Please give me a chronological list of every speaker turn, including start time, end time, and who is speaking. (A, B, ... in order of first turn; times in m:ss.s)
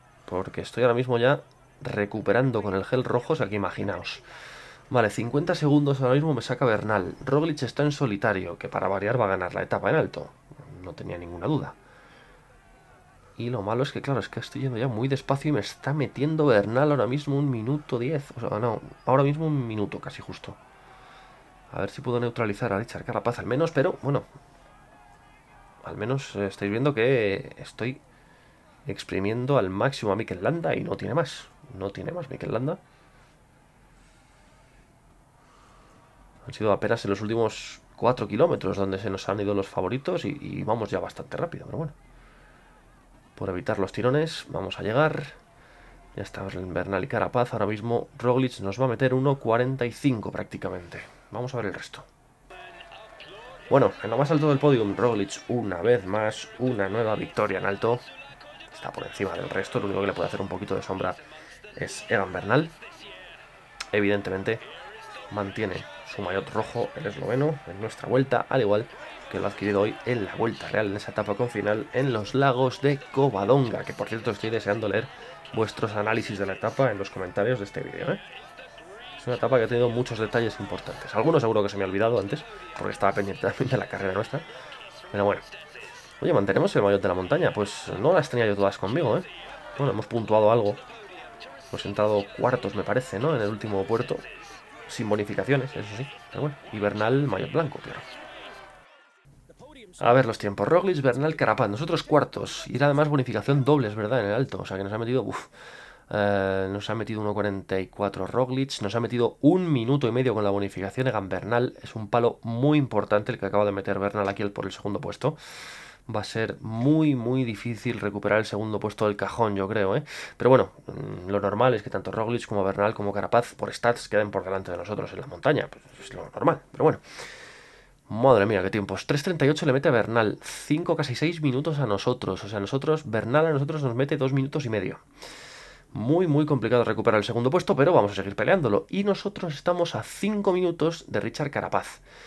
0:00.3-0:04.3 A
0:04.9-0:11.8 A
0:13.4-0:20.6 A
0:21.7-0:24.3 A
0:25.8-0:28.0 A
0:28.8-0:32.8 A
0:36.4-0:41.9 A
0:43.4-0:45.4 A
0:46.2-0:52.1 A
0:53.7-0:58.0 A
0:58.7-1:01.2 A
1:01.8-1:02.8 A
1:03.9-1:04.6 A
1:05.3-1:18.2 A
1:19.2-1:24.4 A
1:25.1-1:25.4 A
1:26.2-1:30.8 A
1:31.7-1:34.2 A
1:34.9-1:38.0 A
1:40.0-1:45.5 A
1:46.1-2:07.0 A
2:08.1-2:15.0 A
2:15.9-2:22.0 A